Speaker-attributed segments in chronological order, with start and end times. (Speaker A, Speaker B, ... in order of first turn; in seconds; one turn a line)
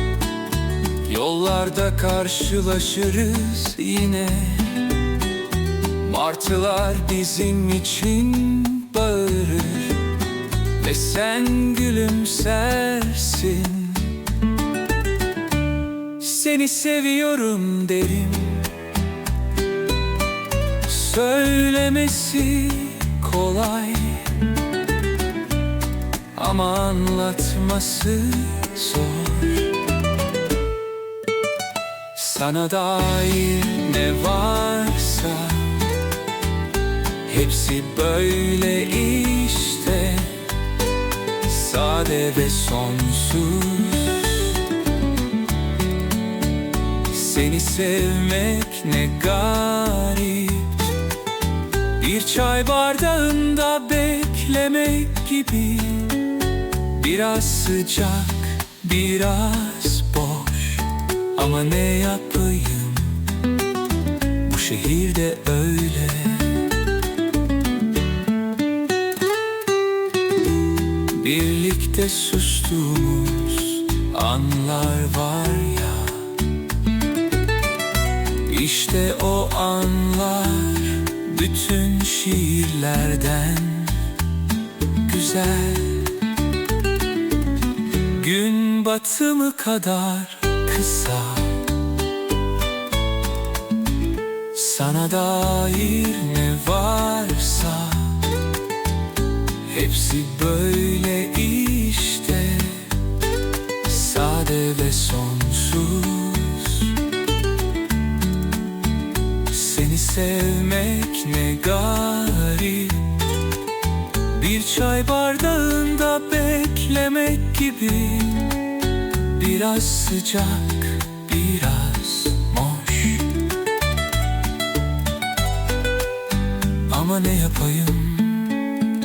Speaker A: 1.0-5.0
Speaker A: 6.0-10.1
Speaker A: 10.8-14.2
Speaker A: 16.2-18.8
Speaker A: 20.8-24.5
Speaker A: 26.3-29.8
Speaker A: 32.1-35.9
Speaker A: 37.2-40.5
Speaker A: 41.4-44.6
Speaker A: 47.0-51.0
Speaker A: 52.0-56.3
Speaker A: 56.9-63.3
Speaker A: 64.4-66.7
Speaker A: 70.9-76.4
Speaker A: 78.4-84.2
Speaker A: 85.0-86.2
Speaker A: 88.0-91.7
Speaker A: 94.5-98.4
Speaker A: 99.7-103.1
Speaker A: 103.8-107.0
Speaker A: 109.5-113.3
Speaker A: 114.3-118.7
Speaker A: 119.2-123.3
Speaker A: 126.9-128.6